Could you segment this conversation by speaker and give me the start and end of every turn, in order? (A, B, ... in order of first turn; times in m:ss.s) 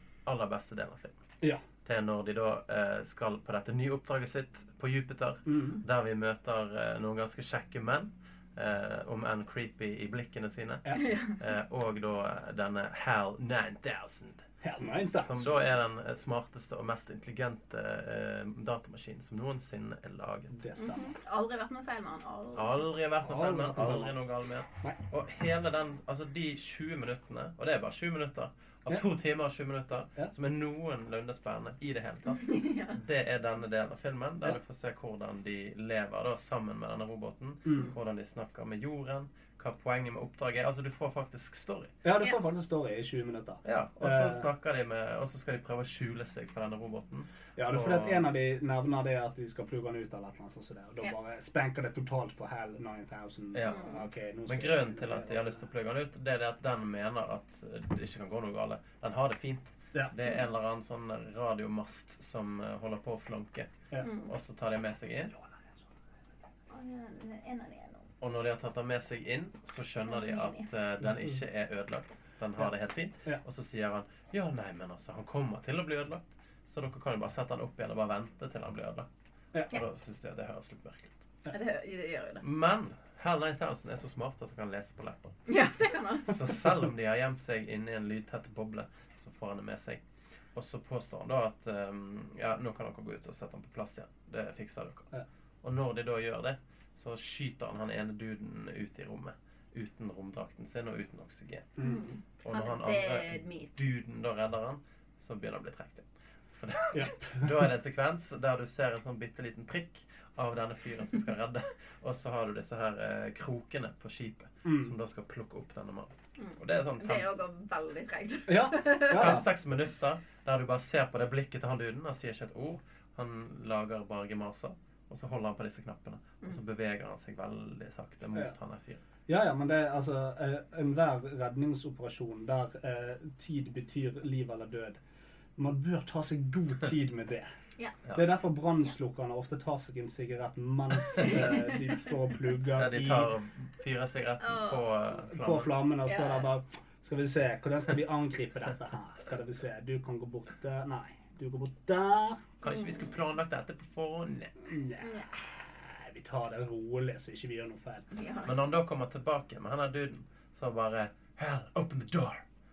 0:00.3-0:01.2 A
0:01.8-0:20.6 A
0:05.5-0:05.8 B
0:10.8-0:11.2 B
0:11.0-0:11.4 C
0:14.6-0:15.6 B
0:20.5-0:21.2 B
0:20.8-0:22.9 C
0:22.6-0:41.9 A
0:23.2-0:24.2 B
0:32.3-0:33.0 C
0:37.7-0:37.9 B
0:42.0-0:44.5 B
0:43.6-0:48.2 A
0:47.6-0:55.6 B
0:53.5-0:53.9 A
0:53.7-0:54.0 C
0:54.5-1:03.7 A
1:04.0-1:04.3 C
1:04.3-1:05.3 A
1:06.7-1:08.1 C
1:08.2-1:19.1 A
1:10.1-1:10.7 C
1:19.7-1:21.3 A
1:21.5-1:22.4 C
1:22.4-1:25.4 A
1:25.5-1:26.6 C
1:26.3-1:30.0 A
1:30.6-1:35.1 A
1:35.6-1:41.8 A
1:41.8-1:42.1 B
1:41.8-1:43.8 C
1:42.4-1:57.3 A
1:46.9-1:47.7 B
1:54.6-1:54.9 B
1:56.4-1:59.4 C
1:58.5-1:59.5 B
1:59.1-2:09.0 A
2:09.3-2:15.0 B
2:15.6-2:17.5 B
2:18.1-2:23.3 B
2:21.2-2:22.0 C
2:22.7-2:25.8 A
2:24.4-2:24.9 C
2:25.3-2:32.6 B
2:26.0-2:26.5 C
2:32.6-2:34.6 A
2:34.7-2:38.1 B
2:35.0-2:35.3 C
2:38.1-2:38.5 C
2:38.4-2:42.4 A